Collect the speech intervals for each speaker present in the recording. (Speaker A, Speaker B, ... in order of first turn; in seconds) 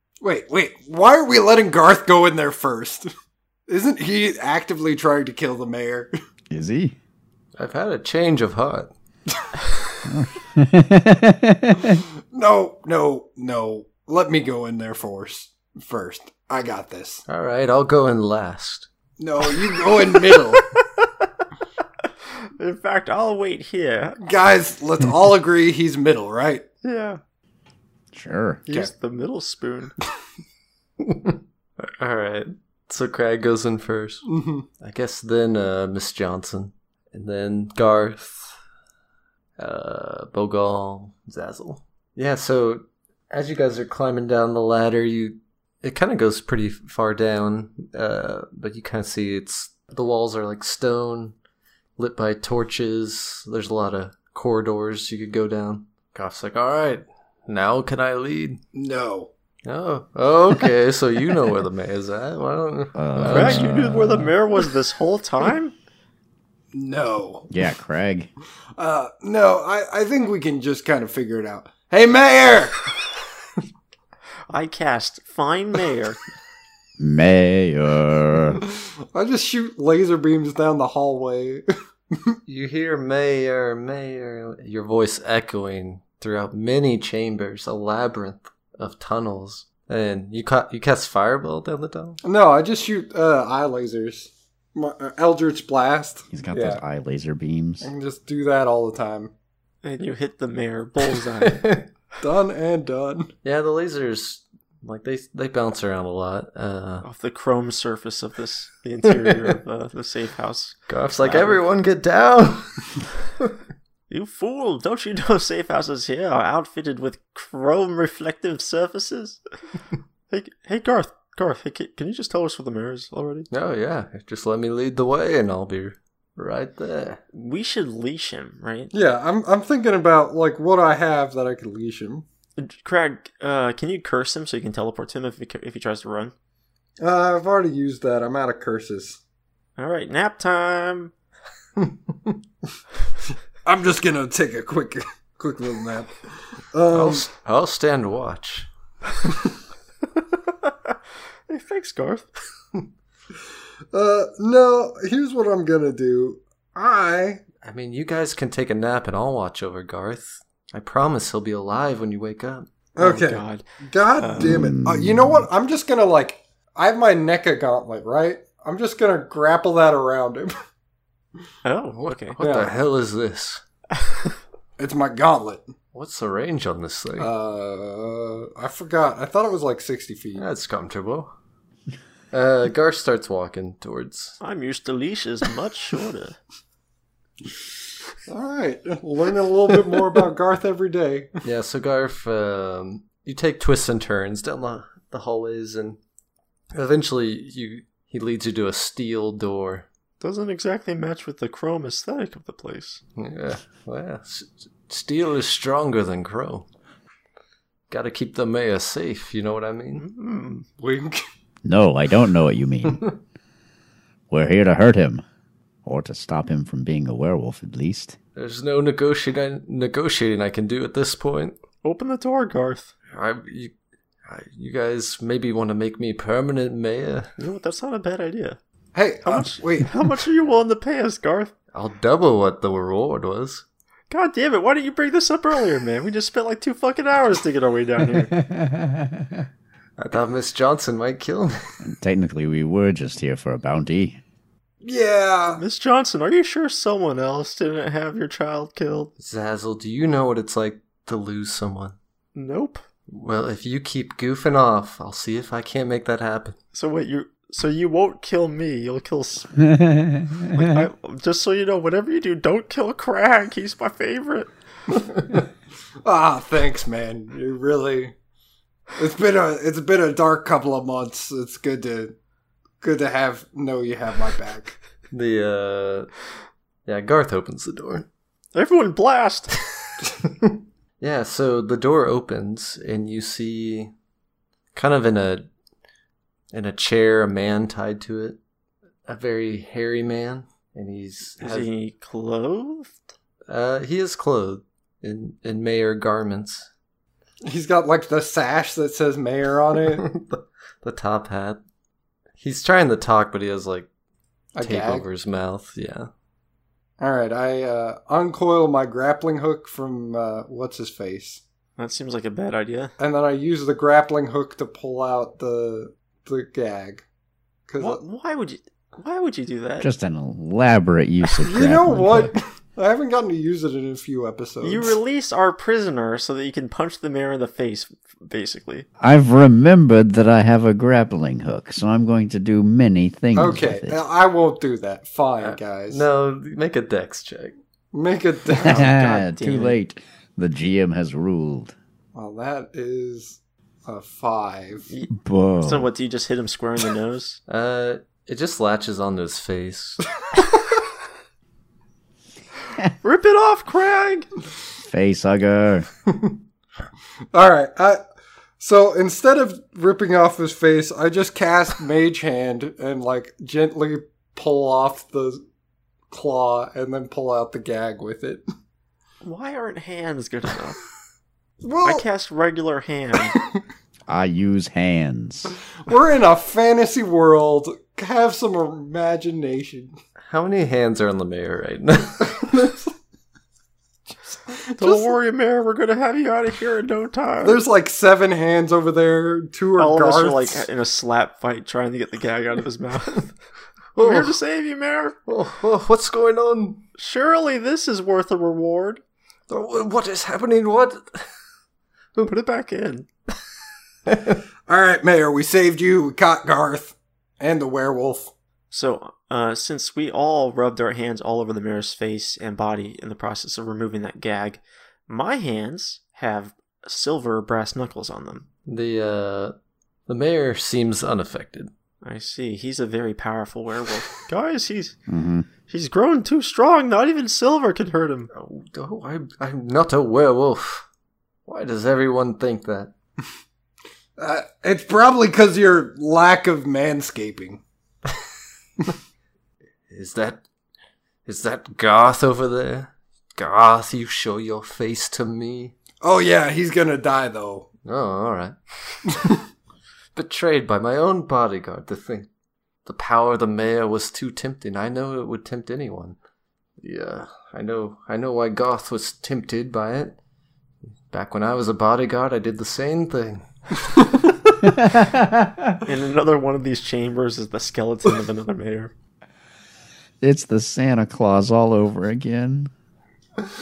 Speaker A: 0.2-3.1, 3.7-6.1, 12.3-17.2, 19.2-20.7, 24.2-26.6, 34.3-34.7, 58.7-59.3, 66.7-67.5, 68.8-72.9, 78.6-81.6, 92.2-96.8, 97.8-99.3, 102.2-103.3, 128.9-132.2, 137.0-139.2, 143.7-147.3, 153.9-157.4, 163.0-170.5, 172.4-172.7, 174.8-175.7, 177.2-180.4, 188.3-191.3, 210.8-211.2, 228.9-229.9, 244.8-245.6, 266.1-268.1, 269.0-272.1, 272.8-274.8, 297.4-300.1, 304.6-305.1, 307.0-311.4, 313.0-317.0, 317.7-318.0, 321.4-324.9, 333.4-336.0, 337.9-338.9, 342.1-344.9, 357.3-358.0, 358.6-365.4, 366.1-368.4, 371.6-372.0, 375.9-379.9, 384.5-385.1, 387.4-390.7, 404.7-408.3, 434.2-437.6, 446.0-447.7
Speaker B: 6.5-7.0, 10.1-12.0, 28.1-28.6, 63.0-64.3, 67.5-68.3, 77.0-78.6, 96.3-97.9, 164.4-165.5, 211.7-213.1, 214.3-215.2, 215.8-218.2, 238.1-239.5, 241.8-244.2, 259.6-260.9, 319.8-322.3, 329.0-334.0, 338.6-341.7, 345.1-345.9, 354.8-355.9, 374.1-375.5, 425.1-425.5, 464.7-465.8, 470.2-472.7
Speaker C: 7.6-8.9, 17.3-18.9, 31.0-34.2, 34.8-38.5, 39.6-51.4, 52.0-58.6, 59.6-63.8, 82.5-92.2, 101.4-101.9, 103.4-107.1, 109.2-109.5, 110.9-113.5, 123.5-127.2, 146.9-148.7, 157.6-162.7, 171.9-173.6, 175.9-177.3, 180.4-181.3, 182.3-184.4, 191.4-196.0, 196.7-199.9, 203.2-206.7, 207.9-210.1, 218.4-221.6, 223.1-223.7, 224.3-227.3, 231.7-233.6, 240.0-241.6, 249.2-252.0, 253.1-256.6, 275.1-276.1, 276.9-278.1, 280.2-283.9, 284.8-285.5, 286.5-288.4, 289.1-291.7, 293.5-296.7, 299.9-301.6, 302.4-303.9, 304.6-306.1, 335.4-337.6, 347.5-350.0, 380.3-382.7, 394.0-394.4, 395.3-396.8, 399.5-401.3, 404.1-404.4, 418.7-419.6, 420.1-421.7, 428.3-430.9, 431.5-432.9, 439.9-440.4, 441.3-445.8, 447.9-449.3, 450.1-452.3, 452.9-456.2, 456.8-460.2, 461.1-463.5
Speaker D: 20.5-21.1, 22.6-24.2, 26.8-27.2, 28.7-29.9, 63.3-65.7, 74.5-76.2, 99.8-101.7, 107.0-111.6, 114.1-119.4, 120.3-123.5, 127.3-128.9, 132.6-136.3, 139.8-141.1, 150.6-150.9, 151.5-152.3, 163.0-163.7, 164.2-164.6, 171.6-172.4, 184.4-186.4, 200.2-203.0, 210.0-210.7, 221.8-222.9, 227.4-228.6, 229.2-231.5, 234.1-238.3, 245.6-249.1, 252.3-252.8, 256.7-259.7, 260.5-264.5, 278.5-279.6, 291.4-292.9, 311.8-312.9, 317.8-319.9, 324.6-328.9, 338.6-339.8, 344.9-347.4, 353.0-354.3, 369.2-370.8, 371.8-373.4, 384.8-387.6, 389.8-393.3, 394.0-395.2, 397.0-399.0, 402.2-403.1, 408.7-418.5, 422.0-425.0, 425.7-428.3, 465.9-468.9